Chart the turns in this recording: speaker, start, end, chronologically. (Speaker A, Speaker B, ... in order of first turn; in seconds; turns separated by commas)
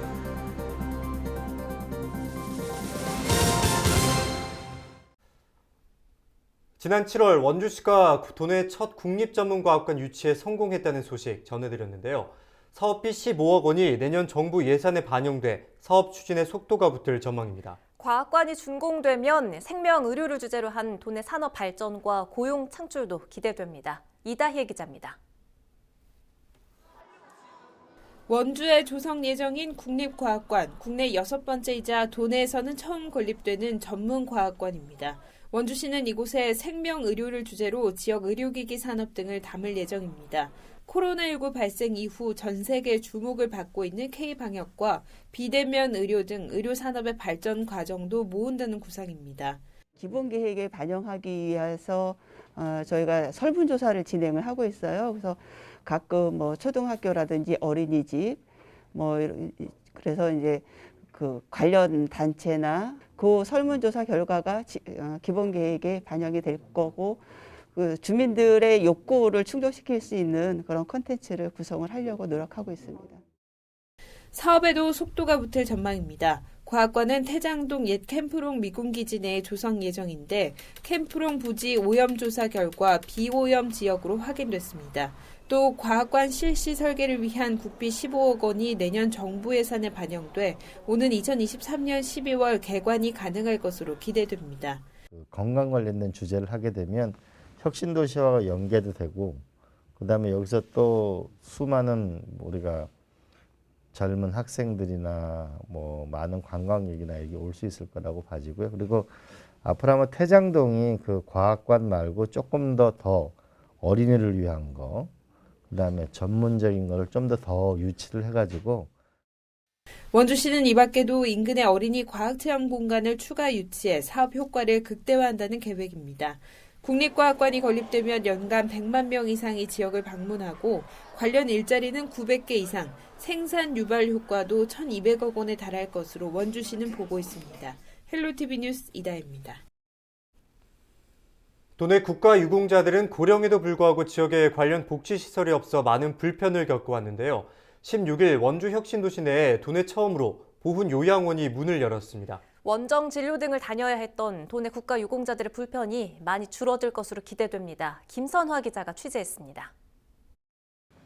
Speaker A: 6.8-17.8, Speaker B: 18.0-25.2, Speaker C: 28.3-49.6, Speaker D: 50.0-73.2, Speaker C: 74.3-94.9, Speaker E: 95.1-99.4, Speaker E: 100.0-102.9, Speaker E: 103.9-115.1, Speaker E: 115.7-118.9, Speaker C: 120.1-139.6, Speaker A: 141.8-152.4, Speaker B: 152.6-159.7